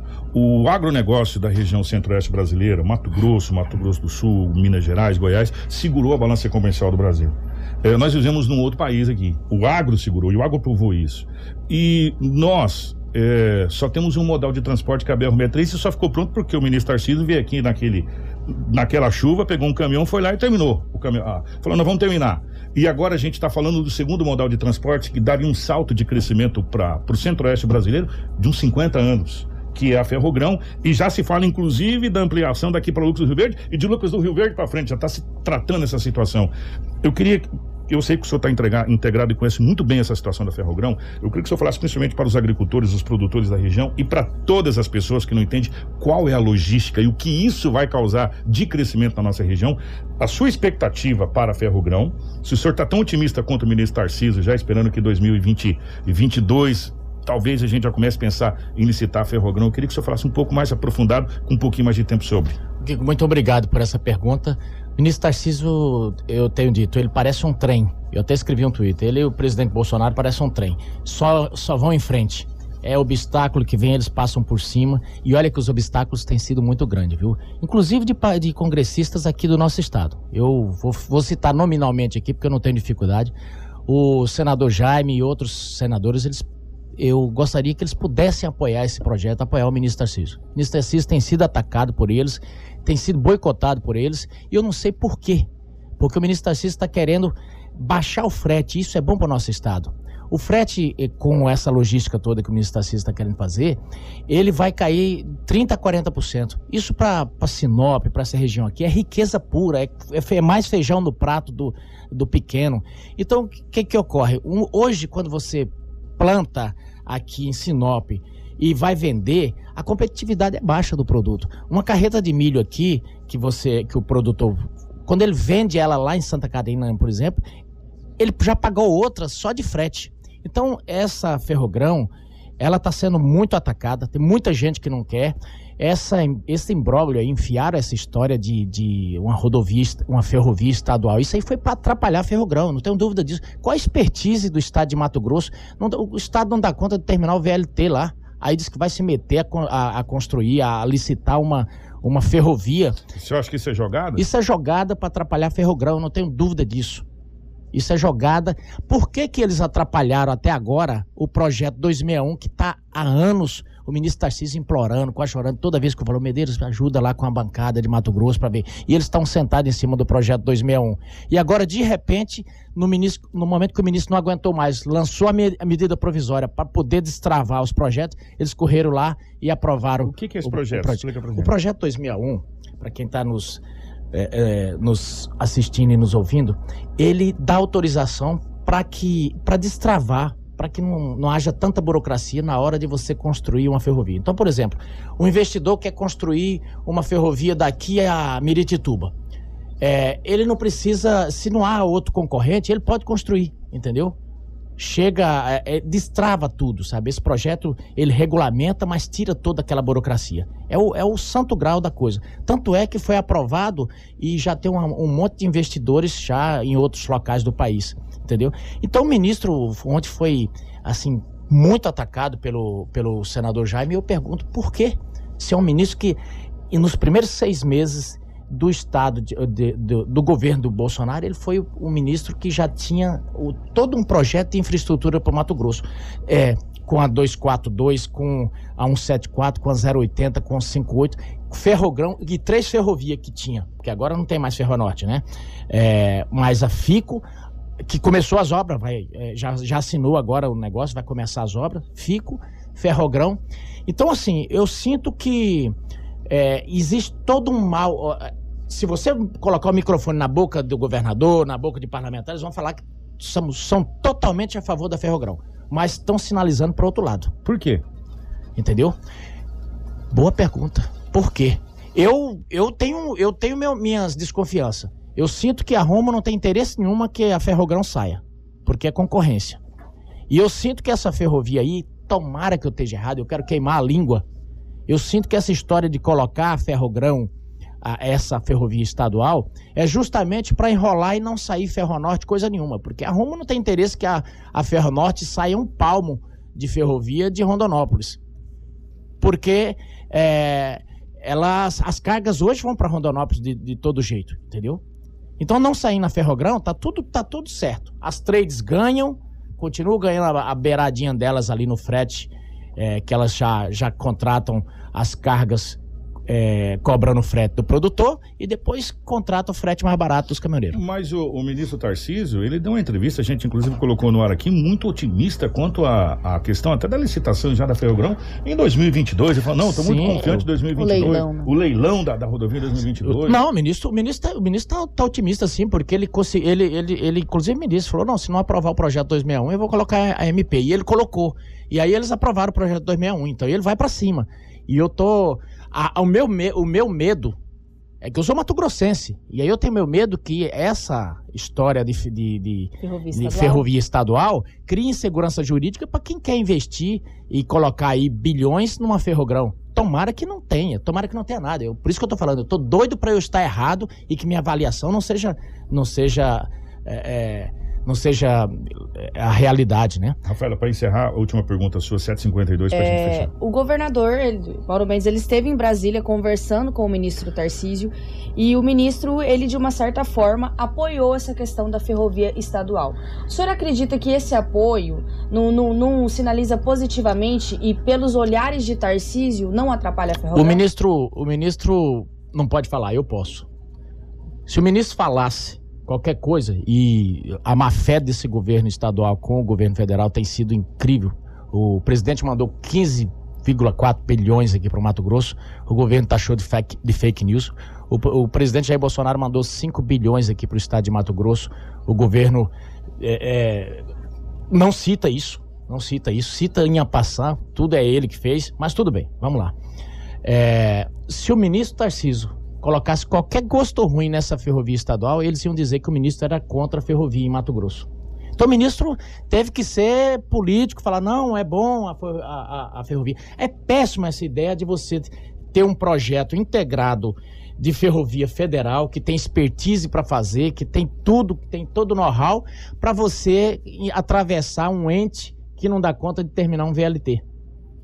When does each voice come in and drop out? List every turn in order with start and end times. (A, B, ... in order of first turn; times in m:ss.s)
0:00.3-1:02.6 A
1:02.8-1:23.3 B
1:23.9-1:26.5 B
1:27.0-1:35.5 B
1:36.0-2:07.4 B
2:08.2-2:33.0 B
2:33.2-2:34.3 A
2:34.2-2:37.1 B
2:37.7-3:19.1 B
3:00.0-3:01.5 A
3:19.8-3:24.2 B
3:24.8-3:46.2 B
3:46.7-4:07.2 B
4:07.9-4:15.8 B
4:16.3-4:27.3 B
4:27.4-4:27.8 A
4:28.6-4:29.0 B
4:30.1-4:39.6 B
4:40.3-4:44.2 B
4:44.9-4:47.3 B
4:47.8-4:58.2 B
4:59.2-5:04.8 B
5:05.4-5:20.8 B
5:20.7-5:33.4 A
5:29.6-5:30.5 B
5:30.8-5:31.5 C
5:33.0-5:47.4 B
5:48.0-6:10.2 B
5:52.8-5:53.7 C
6:10.2-6:13.3 A
6:12.7-6:30.6 C
6:30.3-6:33.5 B
6:34.5-6:53.9 B
6:54.5-6:59.6 B
7:00.2-7:27.2 B